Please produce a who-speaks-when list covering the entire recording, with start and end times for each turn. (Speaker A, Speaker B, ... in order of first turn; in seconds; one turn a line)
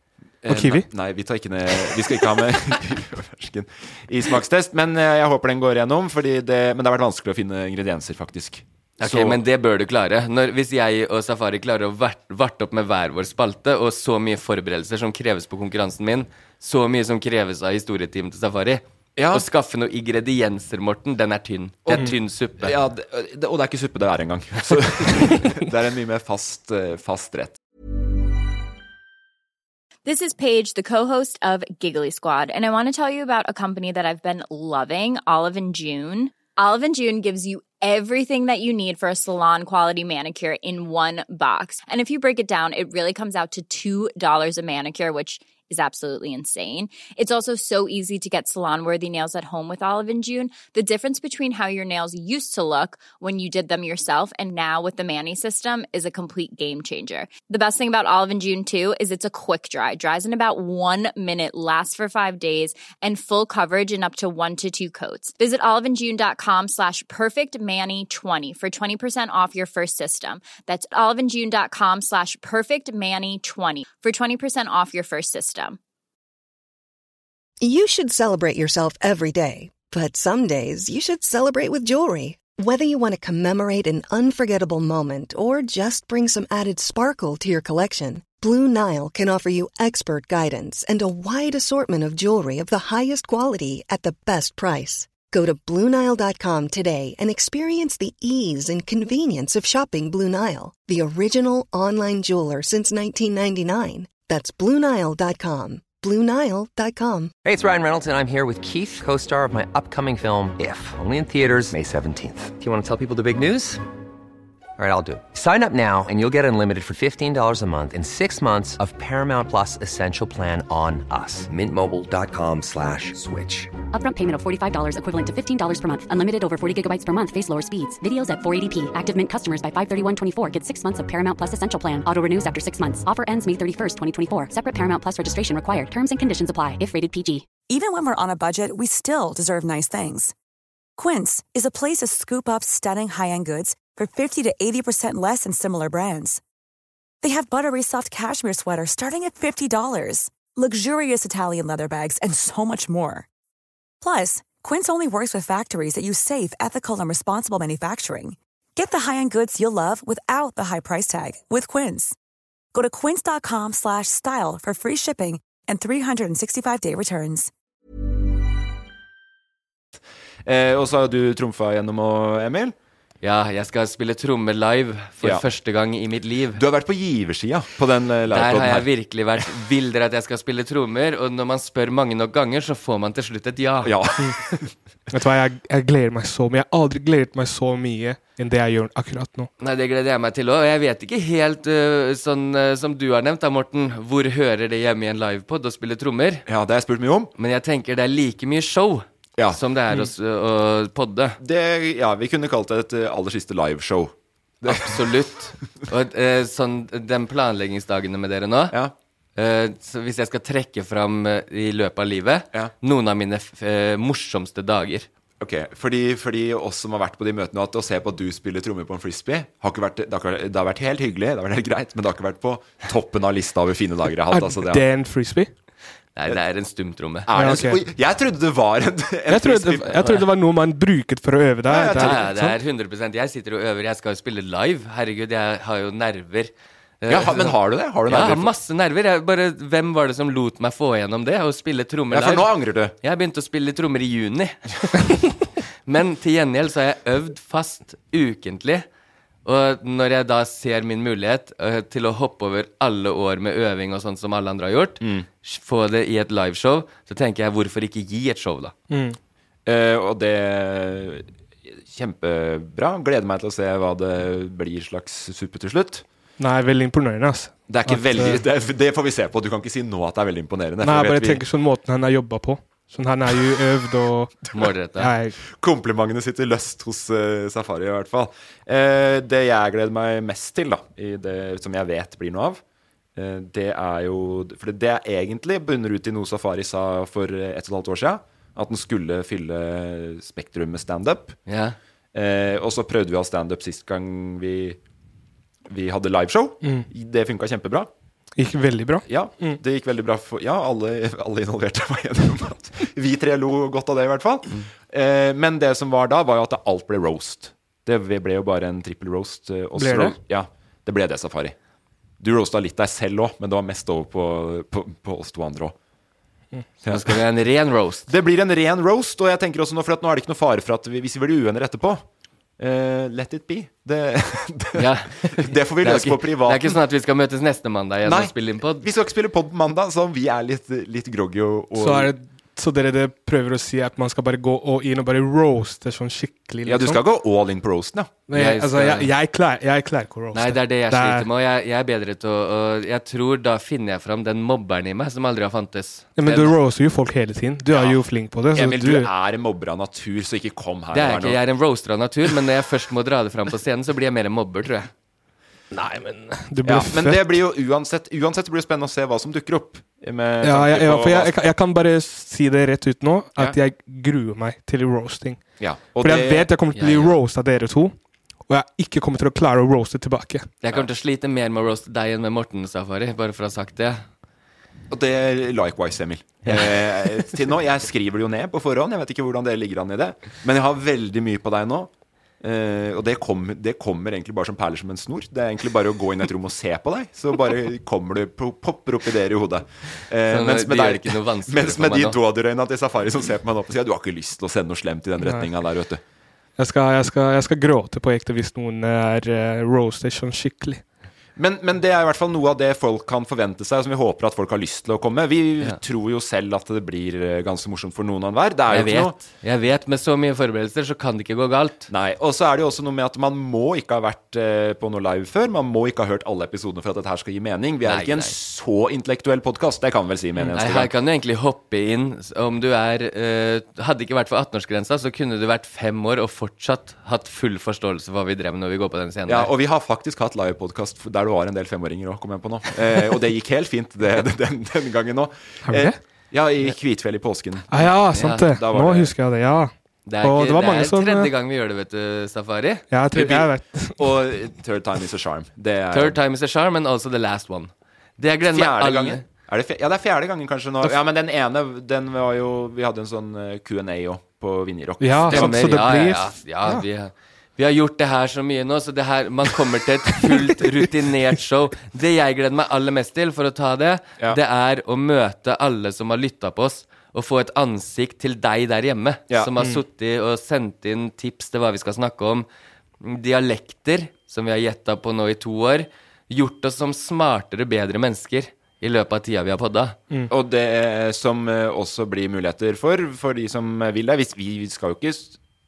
Speaker A: 0.4-9.4
Speaker B: 0.5-0.8
Speaker C: 9.0-22.8
Speaker A: 19.2-19.4
Speaker A: 21.9-27.6
Speaker D: 30.0-75.8
Speaker E: 77.6-107.3
Speaker F: 107.4-113.8
Speaker F: 114.8-123.7
Speaker G: 123.9-137.5
Speaker H: 137.7-140.3
Speaker H: 141.0-146.4
Speaker H: 147.2-153.3
Speaker H: 154.0-162.2
Speaker H: 162.7-167.5
Speaker A: 170.4-172.8
Speaker C: 173.2-176.6
Speaker A: 176.5-178.9
Speaker C: 178.3-184.0
Speaker A: 183.8-184.7
Speaker B: 185.1-189.5
Speaker C: 189.6-196.5
Speaker A: 196.5-197.3
Speaker C: 197.4-201.4
Speaker A: 201.4-205.0
Speaker C: 204.7-208.8
Speaker C: 209.4-215.1
Speaker A: 215.4-224.8
Speaker B: 224.3-225.5
Speaker C: 226.2-227.3
Speaker A: 227.3-230.2
Speaker B: 227.3-227.8
Speaker B: 229.3-232.5
Speaker A: 231.7-232.3
Speaker C: 232.0-248.9
Speaker A: 237.1-238.5
Speaker A: 242.1-242.9
Speaker C: 249.4-258.7
Speaker A: 255.0-255.2
Speaker B: 258.9-259.2
Speaker A: 259.6-266.0
Speaker B: 266.4-268.4
Speaker A: 267.7-271.4
Speaker B: 270.8-275.4
Speaker C: 274.5-275.1
Speaker A: 275.5-282.6
Speaker A: 283.1-291.4
Speaker C: 291.5-291.8
Speaker A: 292.1-294.8
Speaker A: 295.7-297.9
Speaker B: 298.4-299.6
Speaker A: 299.1-311.5
Speaker B: 309.8-310.1
Speaker A: 312.2-315.8
Speaker A: 316.8-317.1
Speaker C: 316.9-318.1
Speaker A: 318.1-322.0
Speaker A: 322.6-326.8
Speaker C: 324.8-328.9
Speaker A: 328.0-332.1
Speaker B: 331.8-337.0
Speaker A: 336.6-338.1
Speaker B: 338.3-341.3
Speaker C: 338.3-339.1
Speaker C: 340.3-346.5
Speaker B: 346.1-349.1
Speaker A: 347.7-348.0
Speaker A: 348.5-351.4
Speaker C: 350.9-354.9
Speaker B: 355.7-357.2
Speaker A: 356.6-361.3
Speaker B: 360.4-370.5
Speaker A: 365.6-366.5
Speaker C: 366.7-367.1
Speaker C: 370.6-374.0
Speaker A: 374.9-396.0
Speaker C: 376.4-377.2
Speaker C: 390.3-392.2
Speaker B: 395.2-395.5
Speaker B: 396.6-400.8
Speaker A: 401.4-409.2
Speaker C: 408.7-411.9
Speaker A: 411.9-420.9
Speaker C: 417.9-418.4
Speaker C: 420.4-429.5
Speaker A: 429.3-439.1
Speaker B: 435.6-436.0
Speaker B: 437.7-441.3
Speaker C: 438.1-438.4
Speaker C: 440.1-442.9
Speaker B: 442.9-444.0
Speaker A: 443.1-446.2
Speaker C: 445.9-449.2
Speaker A: 448.5-455.9
Speaker B: 455.0-456.3
Speaker C: 455.3-472.5
Speaker C: 473.0-480.0
Speaker A: 480.3-485.4